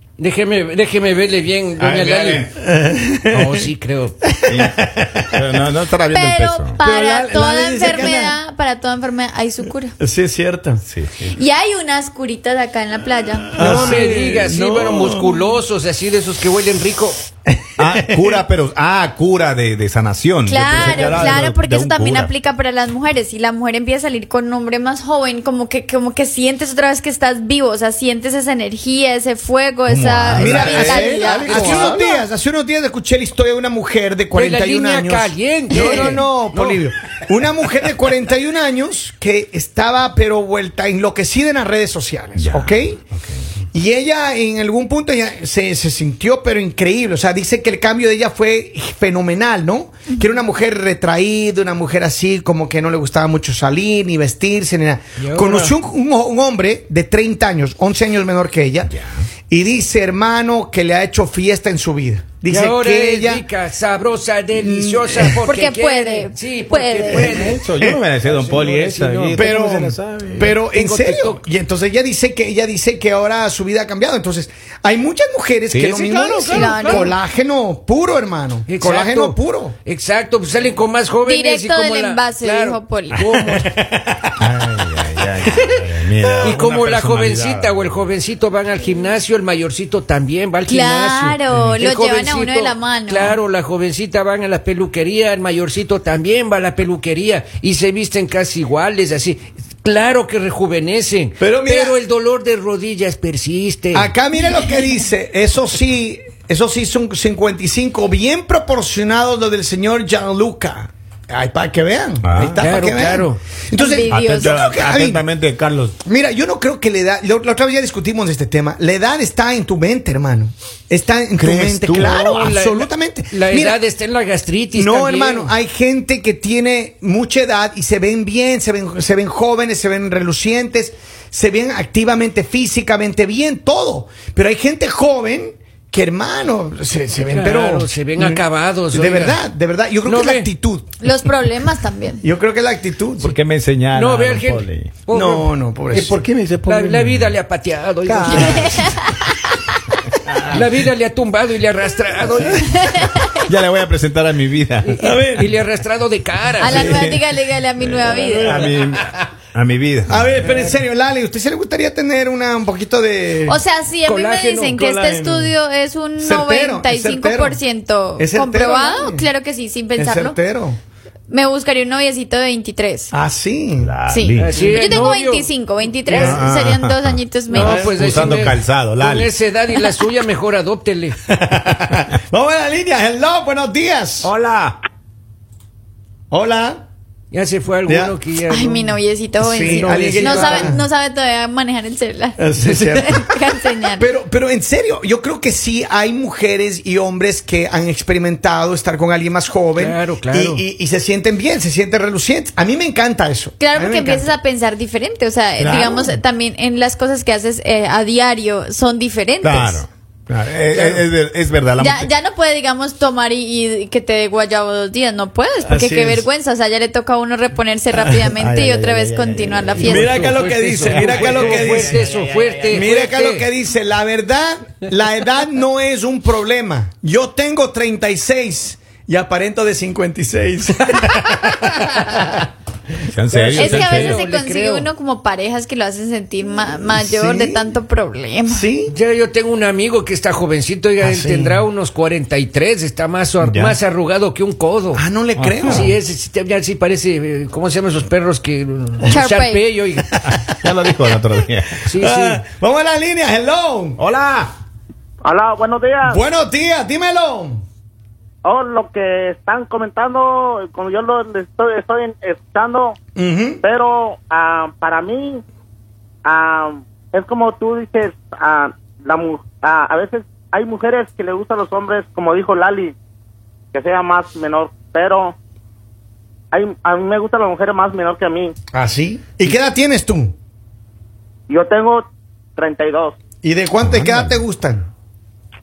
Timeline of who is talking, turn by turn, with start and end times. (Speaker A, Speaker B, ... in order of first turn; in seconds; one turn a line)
Speaker A: 0.2-2.5
Speaker B: 1.8-2.5
Speaker C: 2.6-3.6
Speaker A: 3.3-4.2
Speaker C: 4.2-5.3
Speaker B: 4.5-6.8
Speaker D: 6.1-9.9
Speaker C: 6.8-8.4
Speaker C: 10.0-10.8
Speaker B: 10.8-11.3
Speaker D: 11.2-13.5
Speaker C: 13.5-15.6
Speaker A: 13.6-17.2
Speaker B: 13.6-14.1
Speaker C: 17.5-18.4
Speaker B: 17.8-22.3
Speaker D: 20.4-32.3
Speaker C: 20.7-21.3
Speaker B: 29.9-32.1
Speaker C: 30.4-43.0
Speaker A: 34.3-36.9
Speaker B: 42.4-43.2
Speaker C: 43.7-59.0
Speaker A: 55.2-55.8
Speaker C: 59.5-63.5
Speaker A: 62.5-67.6
Speaker C: 64.5-65.4
Speaker D: 65.4-67.4
Speaker B: 67.1-70.6
Speaker C: 67.5-68.0
Speaker A: 68.2-69.5
Speaker C: 69.3-79.7
Speaker A: 70.6-71.4
Speaker B: 75.7-76.0
Speaker A: 75.8-77.1
Speaker D: 76.5-77.2
Speaker A: 78.7-83.7
Speaker D: 81.2-83.3
Speaker B: 84.4-88.1
Speaker C: 86.2-86.5
Speaker A: 86.4-104.1
Speaker D: 90.7-93.4
Speaker C: 101.4-102.0
Speaker C: 103.9-115.2
Speaker B: 112.2-112.7
Speaker A: 112.6-113.4
Speaker D: 113.7-114.6
Speaker B: 114.1-116.0
Speaker C: 116.0-123.8
Speaker B: 121.4-122.4
Speaker A: 121.9-125.5
Speaker C: 124.7-140.9
Speaker A: 137.3-139.4
Speaker A: 140.0-140.5
Speaker D: 141.0-142.2
Speaker C: 142.2-143.3
Speaker B: 143.2-144.9
Speaker A: 143.9-148.8
Speaker C: 145.1-146.2
Speaker B: 145.9-147.3
Speaker C: 148.1-148.7
Speaker B: 148.1-148.7
Speaker D: 148.5-149.3
Speaker B: 150.2-150.6
Speaker A: 150.4-152.8
Speaker D: 152.7-153.4
Speaker B: 153.3-155.2
Speaker A: 154.8-156.9
Speaker C: 155.0-155.5
Speaker D: 156.6-158.7
Speaker B: 156.6-160.5
Speaker C: 156.7-157.0
Speaker C: 158.2-158.6
Speaker A: 158.3-159.1
Speaker C: 160.1-163.6
Speaker D: 163.4-170.4
Speaker A: 164.0-164.8
Speaker C: 164.7-165.5
Speaker C: 166.2-167.6
Speaker C: 168.2-169.3
Speaker C: 170.0-170.8
Speaker D: 171.3-173.1
Speaker C: 173.1-173.9
Speaker B: 173.8-174.6
Speaker D: 174.1-177.9
Speaker A: 174.4-175.5
Speaker C: 176.1-176.4
Speaker B: 176.2-179.3
Speaker A: 177.5-181.2
Speaker C: 177.5-178.5
Speaker C: 181.3-184.3
Speaker B: 184.2-184.8
Speaker C: 186.3-186.8
Speaker A: 187.3-190.8
Speaker C: 187.8-188.2
Speaker D: 188.5-194.1
Speaker C: 189.4-190.8
Speaker C: 192.4-193.3
Speaker C: 193.9-204.3
Speaker A: 199.8-200.6
Speaker D: 203.6-209.8
Speaker C: 205.6-206.2
Speaker B: 209.4-212.1
Speaker C: 210.7-211.1
Speaker D: 211.8-220.3
Speaker C: 215.7-216.2
Speaker C: 218.0-218.3
Speaker B: 218.3-220.2
Speaker A: 219.7-223.5
Speaker C: 219.8-222.0
Speaker B: 220.8-222.8
Speaker C: 222.7-232.4
Speaker B: 233.1-234.2
Speaker C: 233.3-233.7
Speaker A: 233.5-234.9
Speaker D: 233.5-238.7
Speaker C: 236.9-237.7
Speaker C: 238.5-238.9
Speaker A: 238.9-245.0
Speaker C: 241.0-241.6
Speaker B: 243.4-243.8
Speaker C: 244.9-245.9
Speaker B: 245.4-245.9
Speaker A: 245.6-250.1
Speaker D: 249.0-249.6
Speaker B: 250.2-251.8
Speaker A: 251.8-252.4
Speaker C: 252.0-254.0
Speaker B: 254.0-254.5
Speaker E: 255.2-256.2
Speaker C: 256.0-257.6
Speaker E: 258.4-262.9
Speaker C: 263.1-263.6
Speaker E: 263.6-265.4
Speaker E: 266.2-272.9
Speaker E: 273.7-275.4
Speaker E: 276.5-278.5
Speaker C: 278.7-280.3
Speaker E: 281.5-282.0
Speaker E: 282.6-283.2
Speaker C: 283.4-284.9
Speaker B: 283.8-284.4